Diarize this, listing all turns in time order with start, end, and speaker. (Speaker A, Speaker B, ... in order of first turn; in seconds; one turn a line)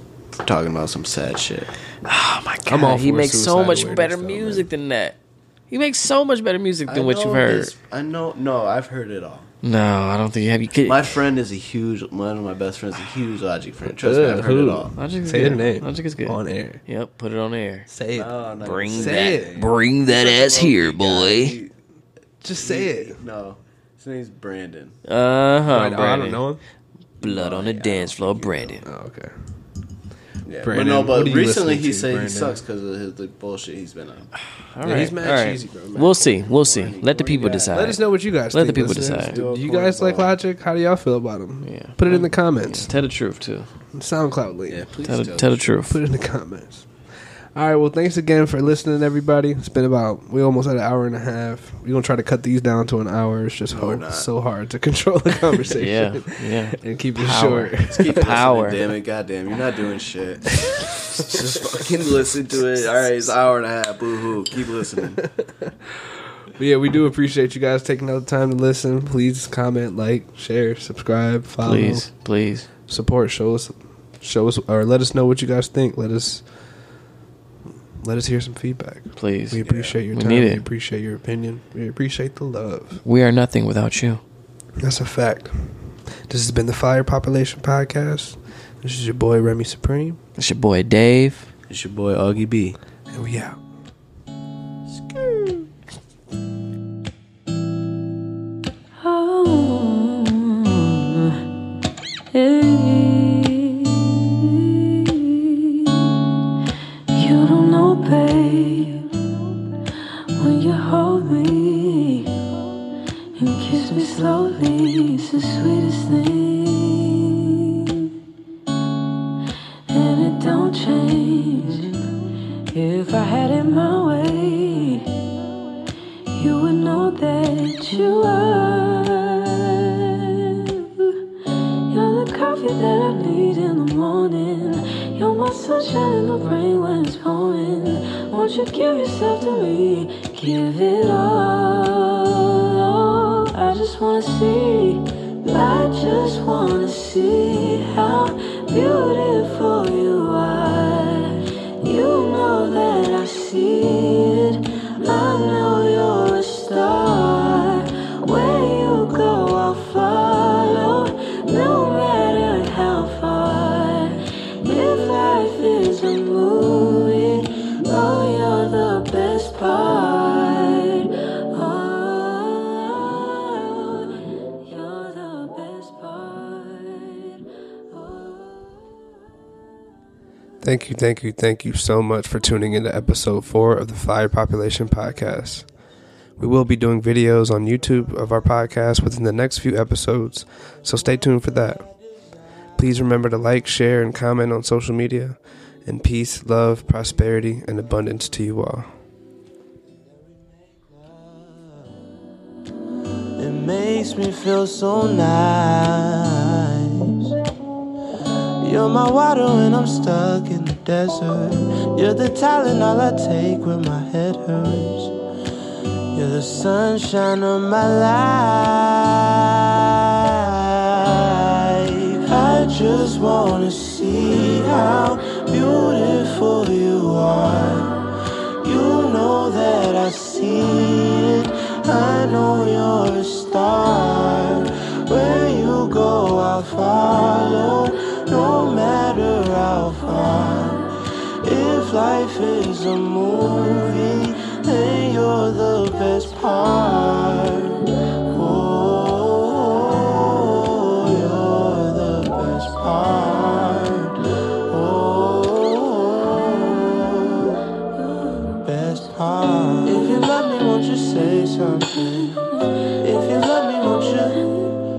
Speaker A: 0.4-1.7
Speaker B: 2.0-5.2
Speaker C: 2.7-4.7
Speaker B: 5.7-7.7
Speaker A: 6.9-9.5
Speaker B: 9.6-11.2
Speaker A: 10.8-14.9
Speaker C: 13.9-16.8
Speaker B: 15.0-17.9
Speaker C: 17.9-19.5
Speaker A: 18.1-21.7
Speaker B: 18.6-21.6
Speaker C: 22.4-23.2
Speaker A: 22.5-25.0
Speaker B: 25.1-26.4
Speaker C: 25.7-26.6
Speaker A: 27.2-28.7
Speaker B: 27.2-28.8
Speaker C: 28.8-29.3
Speaker A: 30.4-34.3
Speaker C: 30.6-32.6
Speaker B: 34.7-39.4
Speaker C: 34.8-36.4
Speaker A: 36.3-37.9
Speaker C: 37.7-42.9
Speaker A: 39.2-40.4
Speaker B: 41.6-43.7
Speaker C: 43.9-44.9
Speaker A: 44.7-45.7
Speaker B: 45.0-46.0
Speaker C: 45.9-46.9
Speaker C: 47.5-58.4
Speaker A: 53.7-54.3
Speaker B: 55.7-58.8
Speaker A: 57.9-65.2
Speaker C: 65.7-72.1
Speaker B: 71.6-72.7
Speaker C: 72.9-76.4
Speaker C: 78.0-83.0
Speaker B: 79.2-80.6
Speaker B: 83.0-84.2
Speaker C: 84.8-90.2
Speaker B: 90.4-91.5
Speaker A: 91.7-92.8
Speaker C: 93.1-93.6
Speaker D: 99.0-101.4
Speaker D: 102.3-106.2
Speaker D: 107.1-109.1
Speaker D: 110.3-112.6
Speaker D: 113.3-118.1
Speaker D: 119.9-122.1
Speaker D: 122.7-125.3
Speaker D: 126.3-131.2
Speaker D: 131.9-178.7
Speaker C: 180.6-185.7
Speaker C: 186.4-191.9
Speaker C: 192.8-198.9
Speaker E: 203.4-207.3
Speaker E: 208.6-215.1
Speaker E: 216.1-228.0
Speaker E: 228.6-257.5
Speaker E: 258.6-264.7